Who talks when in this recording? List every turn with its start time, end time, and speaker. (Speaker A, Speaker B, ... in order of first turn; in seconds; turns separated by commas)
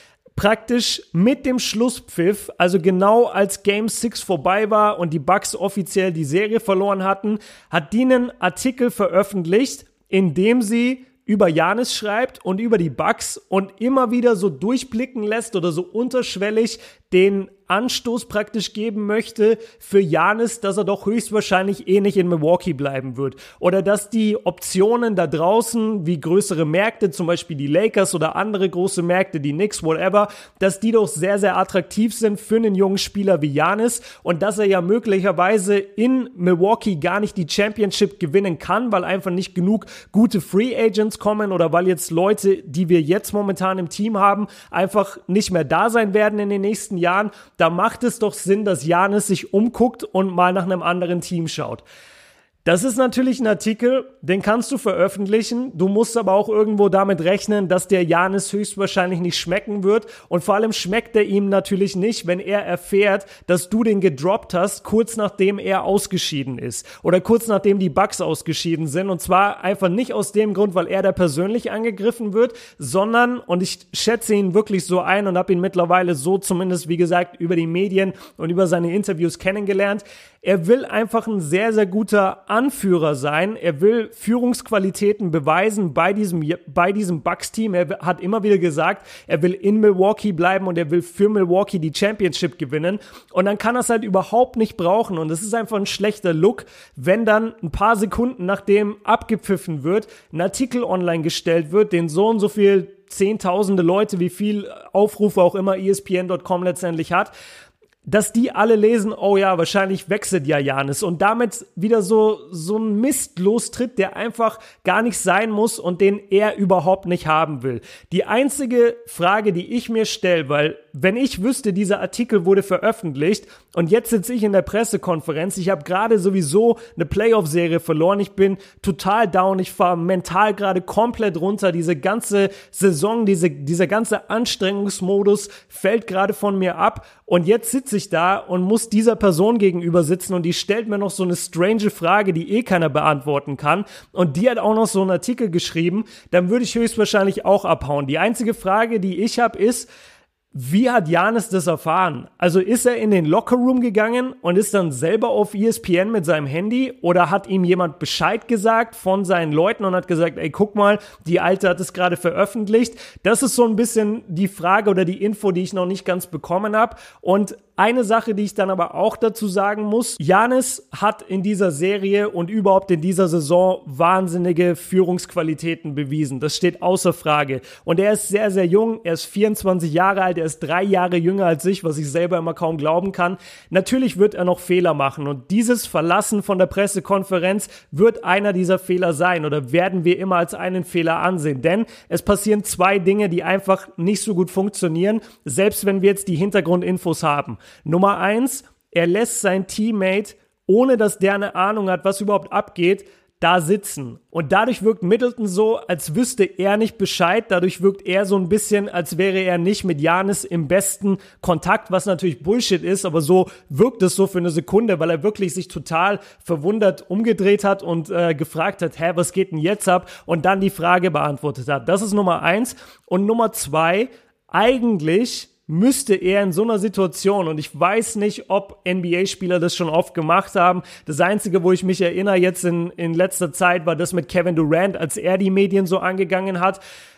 Speaker A: 0.4-51.8, Speaker A: 52.6-107.3, Speaker A: 108.0-149.9, Speaker A: 150.5-236.8